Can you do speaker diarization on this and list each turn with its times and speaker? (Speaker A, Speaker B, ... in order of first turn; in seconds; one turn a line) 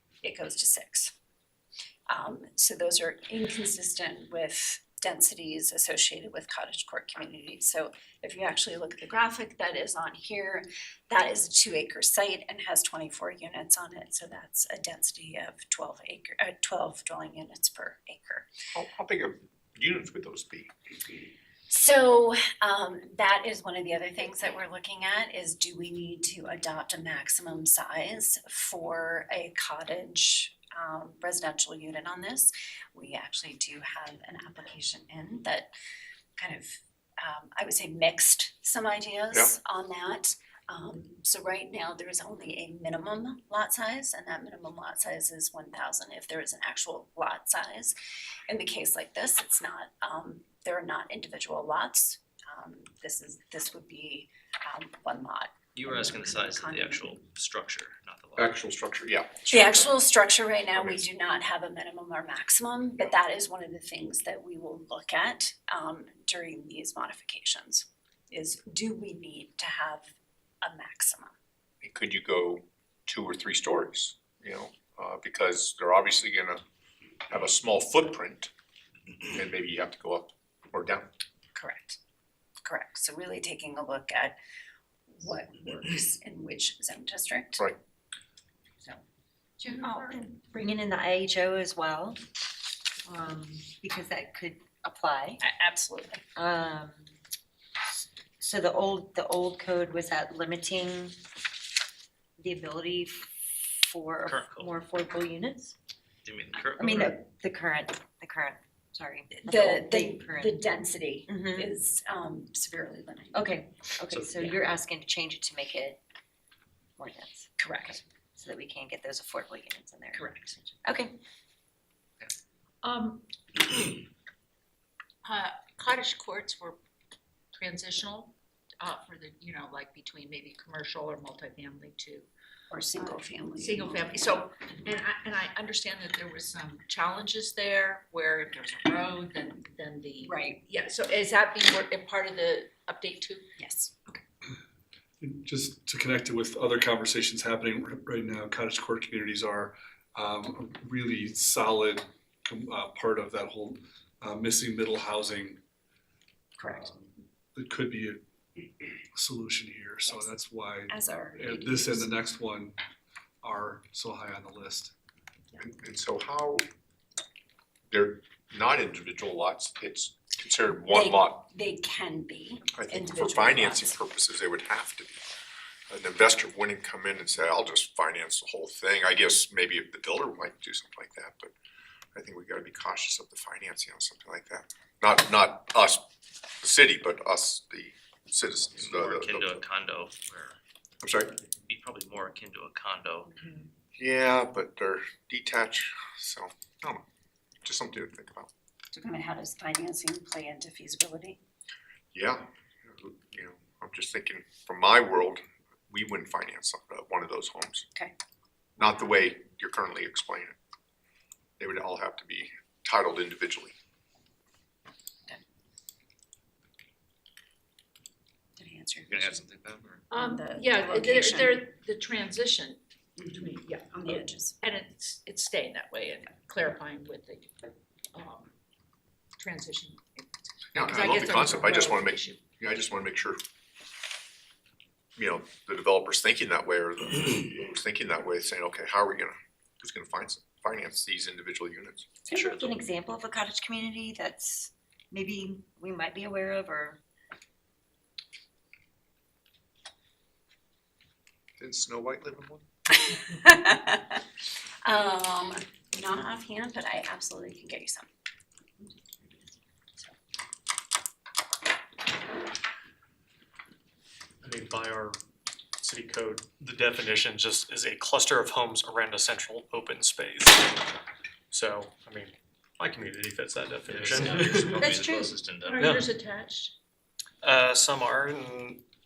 Speaker A: 0.2-1.1
Speaker A: 2.1-18.5
Speaker B: 18.7-20.7
Speaker A: 21.7-35.7
Speaker A: 36.4-47.9
Speaker A: 48.5-57.2
Speaker C: 55.7-58.6
Speaker B: 58.4-59.9
Speaker A: 59.5-70.0
Speaker B: 60.7-61.0
Speaker A: 70.6-71.3
Speaker B: 71.8-76.6
Speaker B: 77.3-78.5
Speaker B: 79.3-81.1
Speaker A: 81.5-82.0
Speaker A: 82.6-84.3
Speaker A: 85.1-87.7
Speaker A: 89.6-90.3
Speaker D: 89.8-92.2
Speaker D: 93.0-95.4
Speaker A: 95.4-96.2
Speaker D: 96.3-97.1
Speaker D: 98.4-101.2
Speaker D: 102.4-105.7
Speaker C: 104.2-104.7
Speaker C: 106.2-107.1
Speaker D: 106.8-110.7
Speaker A: 109.3-113.5
Speaker D: 111.3-111.7
Speaker D: 113.3-116.0
Speaker E: 114.1-114.5
Speaker D: 117.0-121.2
Speaker A: 117.6-118.0
Speaker A: 120.1-120.6
Speaker F: 122.8-123.9
Speaker F: 125.2-126.8
Speaker F: 127.5-132.3
Speaker A: 132.7-134.3
Speaker F: 133.1-143.5
Speaker A: 140.2-140.6
Speaker A: 143.6-144.2
Speaker G: 145.2-155.6
Speaker A: 156.6-156.9
Speaker G: 156.6-158.2
Speaker G: 159.1-162.8
Speaker A: 160.9-162.1
Speaker G: 163.4-164.9
Speaker B: 165.6-166.6
Speaker B: 167.9-171.4
Speaker A: 170.9-174.0
Speaker B: 172.7-175.2
Speaker B: 175.9-181.5
Speaker B: 182.1-186.0
Speaker B: 186.6-189.6
Speaker C: 188.8-190.6
Speaker B: 191.0-191.3
Speaker C: 191.4-193.3
Speaker B: 194.0-197.0
Speaker B: 197.6-198.5
Speaker A: 198.9-201.4
Speaker B: 202.1-207.8
Speaker B: 208.8-210.5
Speaker B: 211.6-213.7
Speaker A: 218.6-219.4
Speaker C: 219.1-220.0
Speaker F: 220.1-228.5
Speaker A: 220.1-221.6
Speaker A: 223.2-224.6
Speaker F: 229.4-232.4
Speaker B: 230.7-233.4
Speaker B: 235.2-242.2
Speaker D: 242.2-247.0
Speaker C: 242.3-242.7
Speaker B: 251.6-252.7
Speaker A: 253.0-254.2
Speaker A: 254.8-258.1
Speaker E: 264.4-265.2
Speaker E: 265.8-270.9
Speaker E: 271.5-274.9
Speaker C: 273.9-275.8
Speaker D: 274.8-275.4
Speaker F: 275.6-276.7
Speaker E: 275.8-276.1
Speaker E: 277.4-278.8